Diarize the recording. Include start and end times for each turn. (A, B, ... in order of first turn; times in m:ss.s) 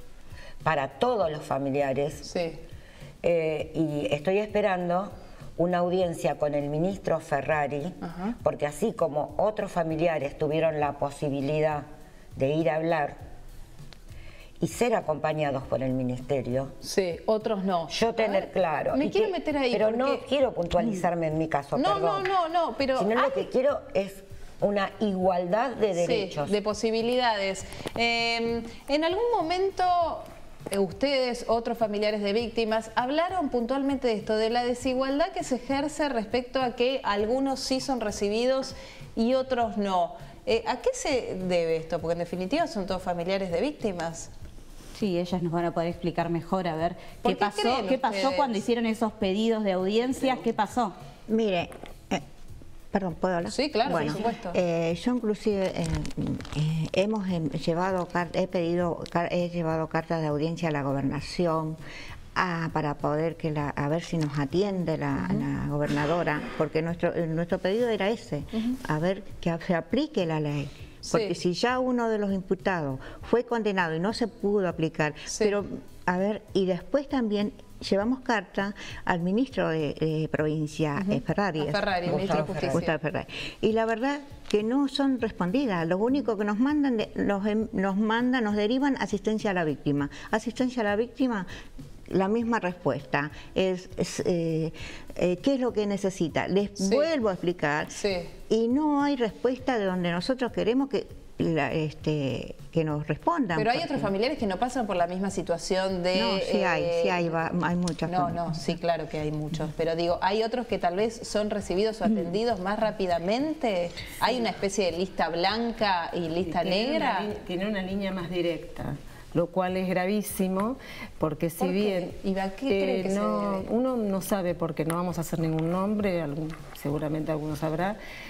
0:00.6-0:02.2 A
0:02.2-0:02.6 B
0:03.2-0:11.8 A
0:08.0-0:08.3 B
0:12.4-0:13.2 A
0:14.6-0:16.7 A
0:16.8-0:20.2 B
0:17.9-0:22.2 A
0:21.8-0:23.5 B
0:22.9-0:26.6 A
0:25.9-0:44.3 B
0:44.9-0:50.9 C
0:47.2-0:48.6 B
0:51.3-0:52.2 D
0:52.9-1:01.8 D
0:53.5-0:54.6 B
1:02.3-1:31.5 D
1:11.1-1:11.3 B
1:21.0-1:22.9 B
1:22.1-1:22.8 A
1:32.1-1:44.1 D
1:36.8-1:37.1 B
1:37.9-1:38.3 B
1:43.6-1:47.2 B
1:46.1-1:48.5 D
1:48.1-1:57.3 B
1:56.4-2:08.0 E
2:01.6-2:03.7 B